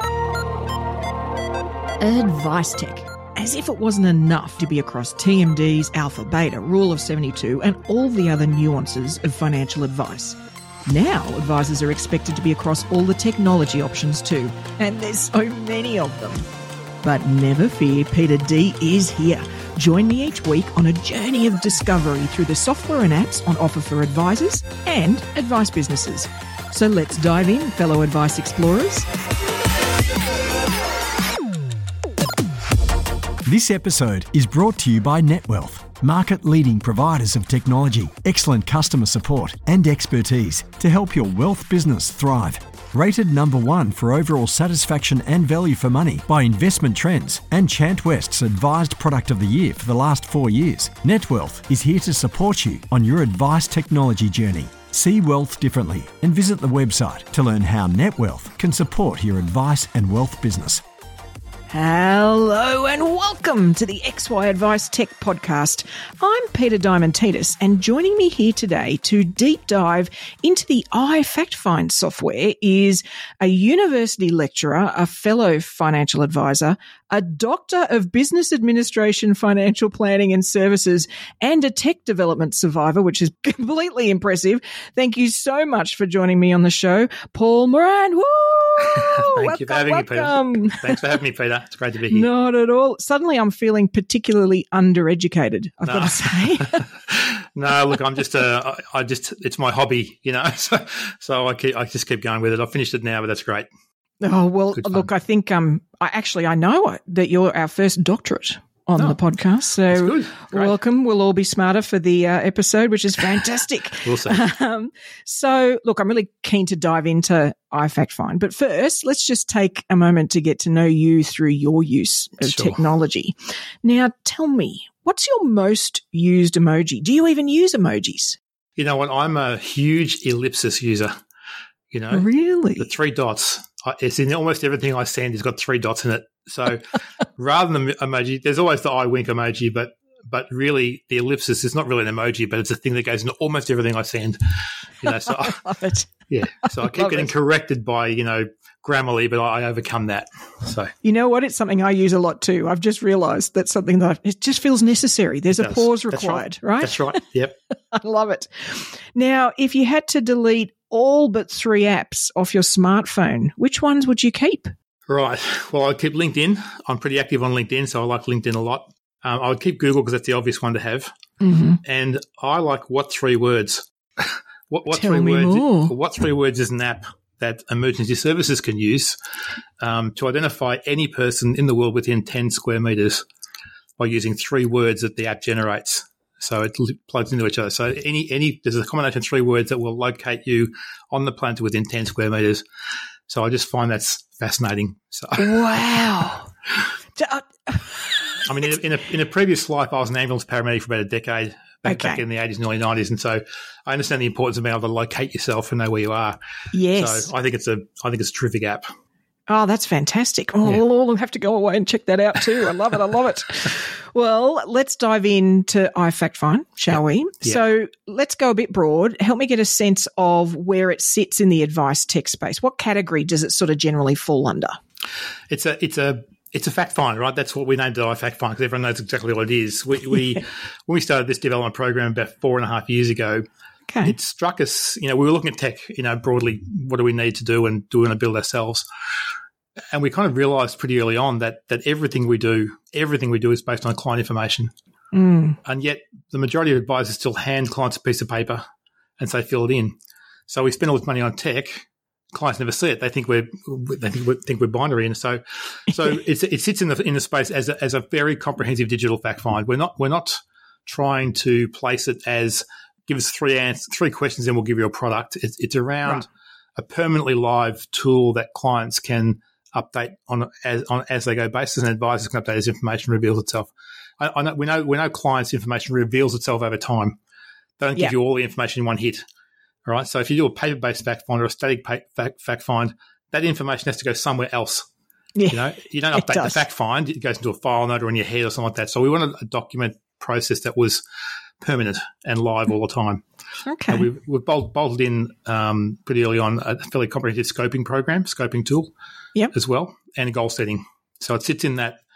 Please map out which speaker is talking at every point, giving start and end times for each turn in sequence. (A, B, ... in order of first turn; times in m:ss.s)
0:02.0-0:16.5 A
0:17.0-0:29.1 A
0:33.4-1:00.8 B
1:01.7-1:31.2 A
1:28.9-1:32.3 C
1:32.1-1:36.8 A
1:35.8-1:43.7 C
1:44.2-2:08.4 A
1:44.8-1:45.1 C
1:49.9-1:50.8 C
1:54.0-1:54.4 C
2:02.4-2:02.8 C
2:08.8-2:11.2 C
2:11.9-2:25.6 C
2:12.1-2:12.9 A
2:25.0-2:26.1 A
2:26.3-2:30.9 C
2:26.6-2:27.3 A
2:31.0-2:37.2 A
2:35.6-2:37.6 C
2:37.9-2:44.7 A
2:45.1-2:51.1 C
2:51.4-2:51.8 A
2:51.8-2:59.2 C
2:54.9-2:55.9 A
2:59.8-3:03.2 C
3:04.0-3:12.6 C
3:13.3-3:15.6 C
3:15.4-3:16.5 A
3:17.2-3:18.7 A
3:18.4-3:26.4 C
3:21.8-3:22.2 A
3:26.7-3:27.3 A
3:27.0-3:28.9 C
3:29.5-3:44.8 A
3:45.5-3:53.4 C
3:54.0-3:58.9 C
3:59.9-4:04.7 C
4:05.1-4:05.6 A
4:05.6-4:08.6 C
4:09.2-4:10.0 C
4:10.5-4:33.7 C
4:34.2-4:37.2 C
4:37.8-4:39.2 C
4:39.9-4:44.9 C
4:45.4-4:46.6 A
4:45.5-4:51.0 C
4:51.6-4:53.2 C
4:53.6-4:54.1 A
4:53.9-4:58.9 C
4:59.5-5:02.0 C